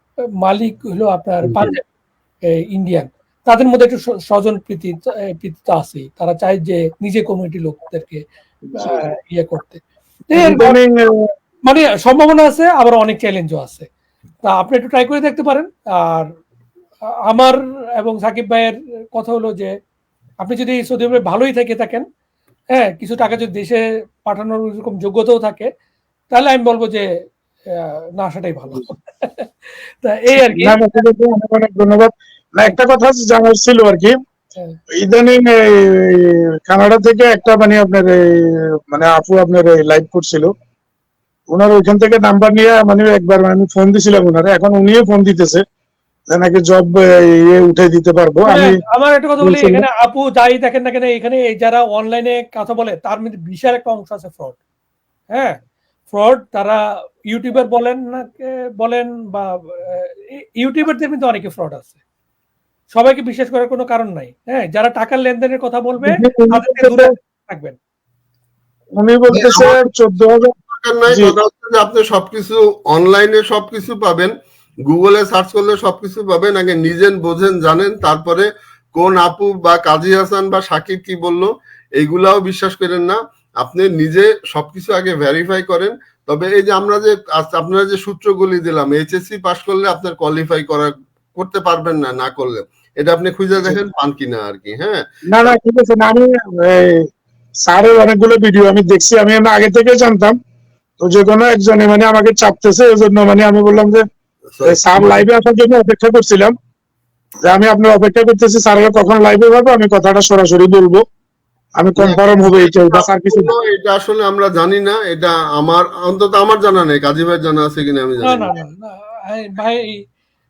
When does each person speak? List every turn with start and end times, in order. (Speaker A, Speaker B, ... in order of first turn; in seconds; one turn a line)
Speaker A: 0.4-1.8
Speaker B: 1.5-1.8
Speaker A: 2.7-8.2
Speaker A: 8.8-10.8
Speaker C: 10.3-11.1
Speaker A: 11.7-13.8
Speaker A: 14.4-16.3
Speaker A: 17.3-19.7
Speaker A: 20.4-22.0
Speaker A: 22.7-25.7
Speaker A: 26.3-27.1
Speaker A: 27.7-30.8
Speaker C: 30.4-34.1
Speaker C: 35.0-40.5
Speaker C: 41.5-45.6
Speaker C: 46.3-48.8
Speaker A: 48.5-54.6
Speaker C: 49.4-49.9
Speaker A: 56.1-62.0
Speaker A: 62.9-67.8
Speaker C: 66.0-67.1
Speaker C: 69.0-70.5
Speaker B: 69.3-69.7
Speaker B: 70.7-74.3
Speaker C: 71.1-71.3
Speaker B: 74.8-95.5
Speaker C: 95.3-97.0
Speaker C: 97.7-100.3
Speaker C: 101.0-104.0
Speaker B: 104.5-105.2
Speaker C: 104.6-106.5
Speaker C: 107.5-111.0
Speaker C: 111.8-113.5
Speaker B: 112.0-118.6
Speaker A: 118.2-120.0